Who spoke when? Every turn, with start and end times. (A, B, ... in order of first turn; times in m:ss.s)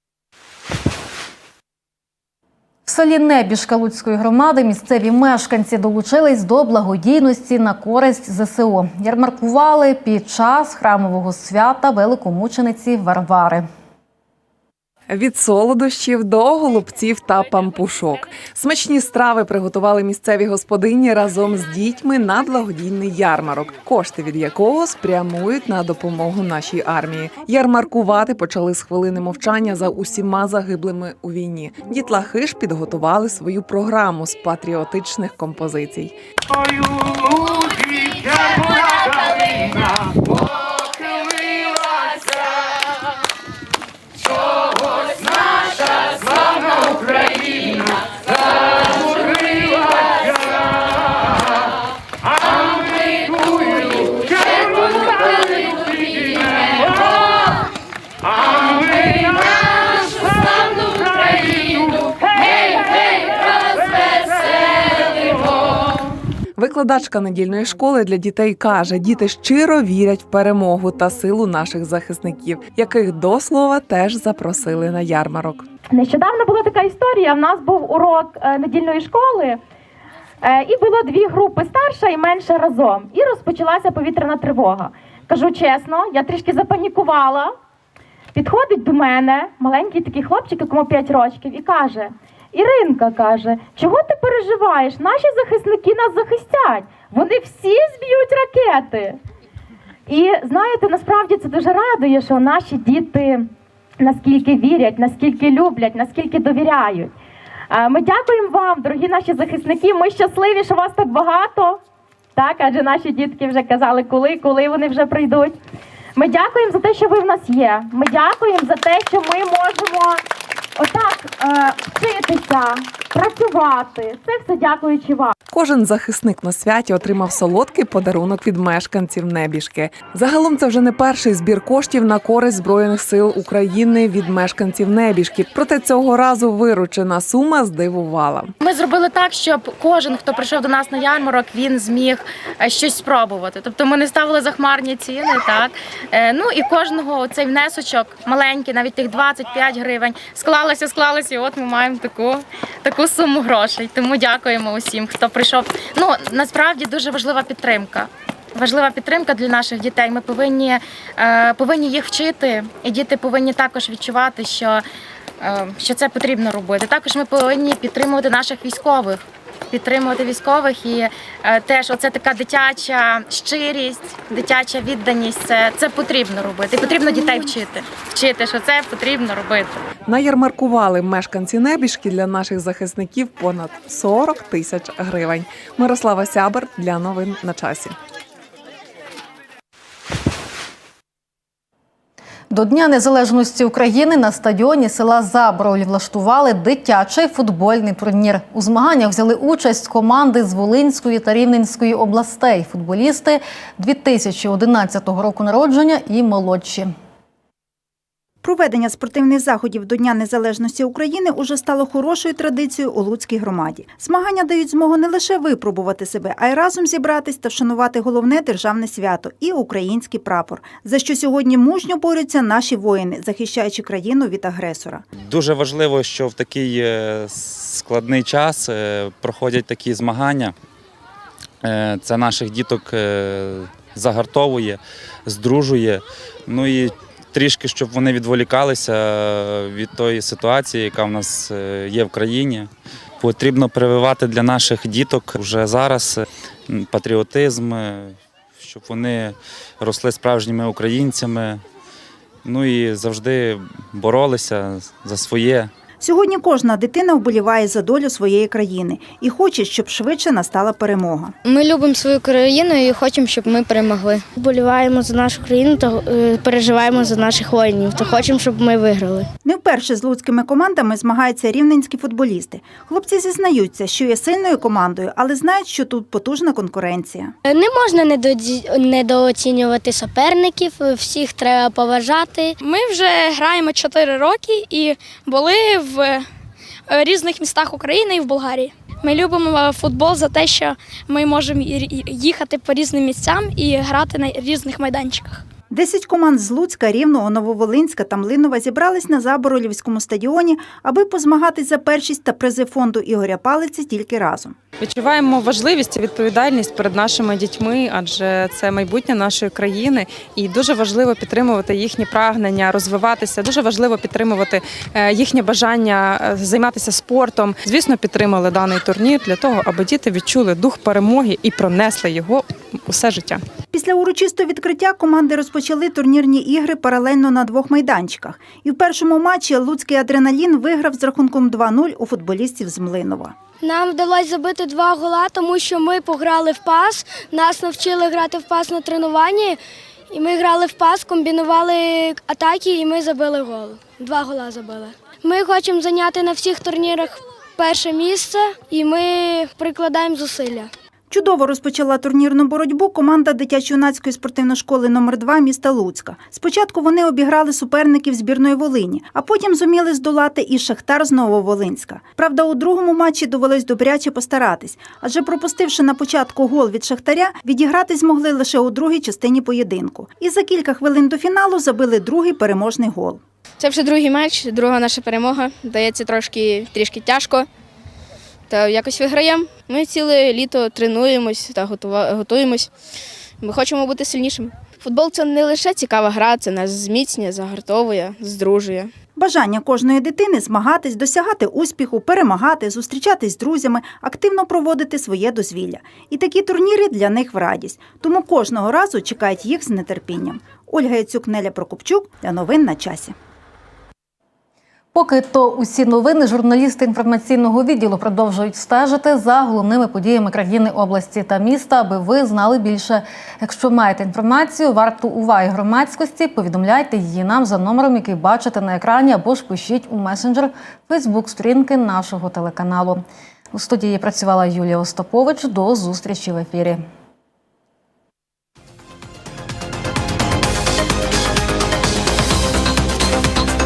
0:02.8-0:13.7 A
0:15.1-0:36.1 B
1:06.6-1:15.6 B
1:15.9-1:19.6 C
1:20.4-1:27.5 C
1:28.3-1:39.2 C
1:40.1-1:43.5 C
1:44.0-1:47.1 C
1:47.7-1:51.8 C
1:52.4-1:55.6 C
1:56.2-2:00.2 C
2:00.8-2:05.3 C
2:05.5-2:18.5 B
2:18.6-2:44.8 D
2:45.4-2:59.8 D
3:00.0-3:08.0 B
3:12.5-3:26.9 A
3:28.4-3:45.0 E
3:45.2-3:50.5 F
3:51.6-4:02.7 F
4:03.2-4:11.6 F
4:12.4-4:15.7 F
4:16.0-4:21.3 E
4:21.4-4:29.3 G
4:29.4-4:37.3 E
4:37.4-4:46.3 G
4:46.9-4:55.4 G
4:55.7-5:04.6 E
5:04.8-5:23.4 H
5:23.7-5:33.3 E
5:33.6-5:39.6 G
5:40.1-5:50.7 G
5:51.1-6:13.2 E
6:13.6-6:17.5 G
6:18.5-6:22.7 G
6:23.4-6:28.9 G
6:29.2-6:43.1 E
6:44.9-7:06.8 A